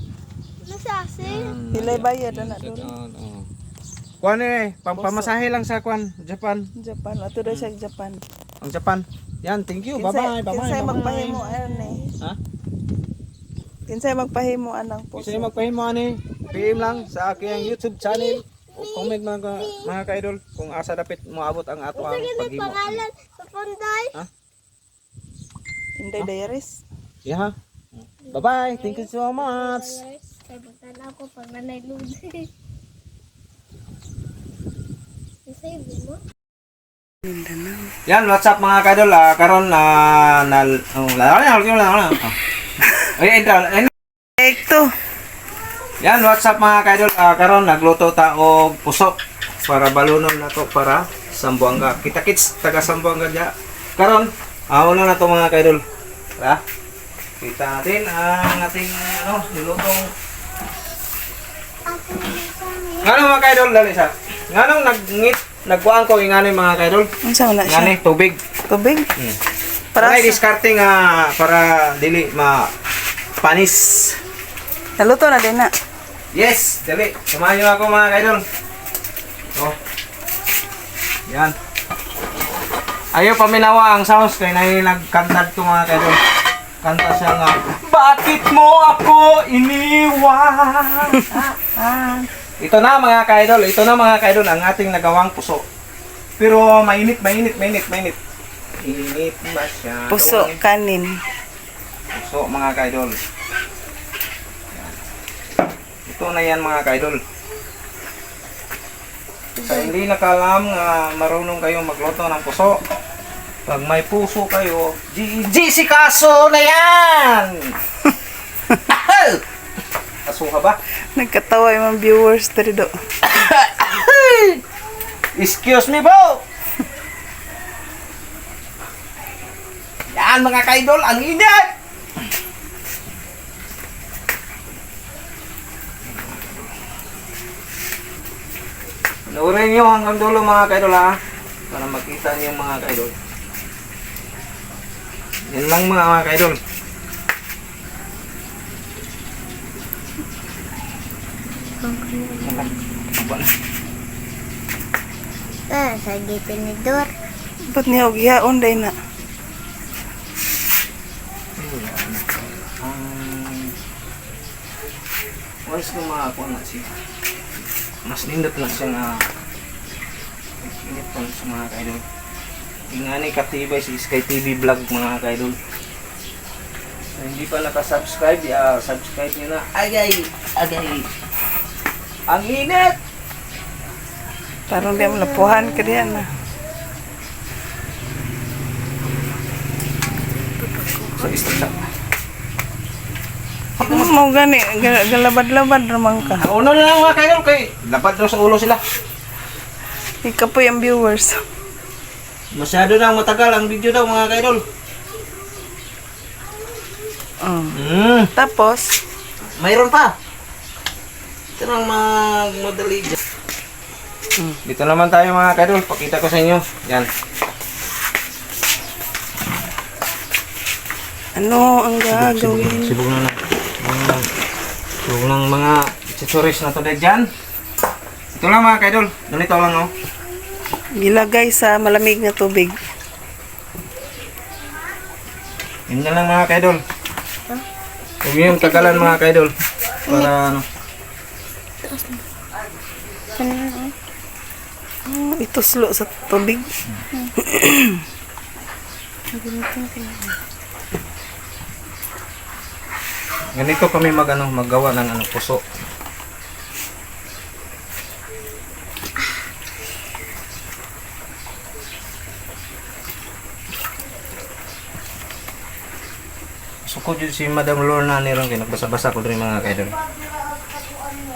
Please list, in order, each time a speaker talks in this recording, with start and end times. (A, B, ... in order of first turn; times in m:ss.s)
0:00.6-0:01.6 A
0:01.2-0:03.4 B
0:01.7-0:02.9 C
0:04.2-0:06.7 B
0:05.0-0:05.4 C
0:06.8-0:08.2 C
0:08.6-0:11.5 B
0:09.9-0:12.1 C
0:11.4-0:12.1 A
0:13.9-0:15.5 C
0:15.2-0:23.0 B
0:16.5-0:19.9 A
0:21.9-0:24.1 A
0:26.0-0:26.8 C
0:27.2-0:27.5 B
0:28.3-0:30.0 B
0:28.3-0:32.5 A
0:35.4-0:36.2 A
0:37.2-0:37.9 C
0:38.1-0:42.4 B
0:43.0-0:43.9 B
0:44.4-0:44.9 C
0:46.0-0:55.8 B
0:57.4-1:00.1 B
1:01.9-1:03.1 A
1:03.0-1:07.1 B
1:07.2-1:07.9 C
1:07.6-1:08.4 B
1:08.7-1:09.1 C
1:09.9-1:10.4 C
1:10.0-1:12.7 B
1:13.4-1:14.2 B
1:15.0-1:15.7 C
1:16.3-1:18.4 B
1:21.3-1:21.5 B
1:23.1-1:26.2 B
1:26.8-1:35.6 B
1:36.4-1:38.2 B
1:38.8-1:40.6 B
1:40.1-1:41.2 C
1:42.1-1:43.2 B
1:44.7-1:45.0 B
1:46.0-1:47.2 B
1:49.6-1:52.8 B
1:53.6-1:57.7 B
1:58.7-1:59.4 B
2:00.2-2:00.8 B
2:01.1-2:02.9 C
2:03.2-2:04.6 B
2:05.4-2:06.4 B
2:10.1-2:11.7 B
2:16.0-2:16.7 B
2:19.3-2:21.2 B
2:21.7-2:23.2 B
2:25.5-2:26.6 B
2:31.8-2:32.7 A
2:32.4-2:33.5 B
2:35.7-2:37.1 A
2:37.7-2:39.0 C
2:41.6-2:43.7 B
2:45.7-2:46.9 B
2:48.0-2:49.3 B
2:50.6-2:52.0 B
2:52.9-2:55.6 B
2:57.2-3:01.1 B
3:02.3-3:03.0 B
3:04.7-3:06.3 C
3:04.8-3:06.2 A
3:11.0-3:11.5 C
3:11.2-3:11.9 B
3:13.8-3:14.1 B
3:13.8-3:16.5 C
3:16.2-3:18.8 B
3:20.2-3:21.4 C
3:22.5-3:24.6 B
3:27.4-3:27.8 C
3:27.7-3:28.3 B
3:28.3-3:28.9 C
3:29.6-3:30.1 B
3:31.6-3:33.2 B
3:34.6-3:37.1 B
3:41.4-3:42.9 C
3:42.1-3:44.3 B
3:45.0-3:47.3 B
3:48.3-3:49.9 B
3:51.0-3:52.8 C
3:55.9-3:56.8 B
3:58.2-3:59.5 B
3:58.6-3:59.1 C
3:58.6-3:59.0 A
4:00.0-4:00.6 B
4:01.8-4:02.2 A
4:03.4-4:03.9 A
4:05.1-4:06.7 C
4:07.4-4:08.0 C
4:09.3-4:10.3 C
4:13.5-4:15.6 B
4:26.8-4:30.0 B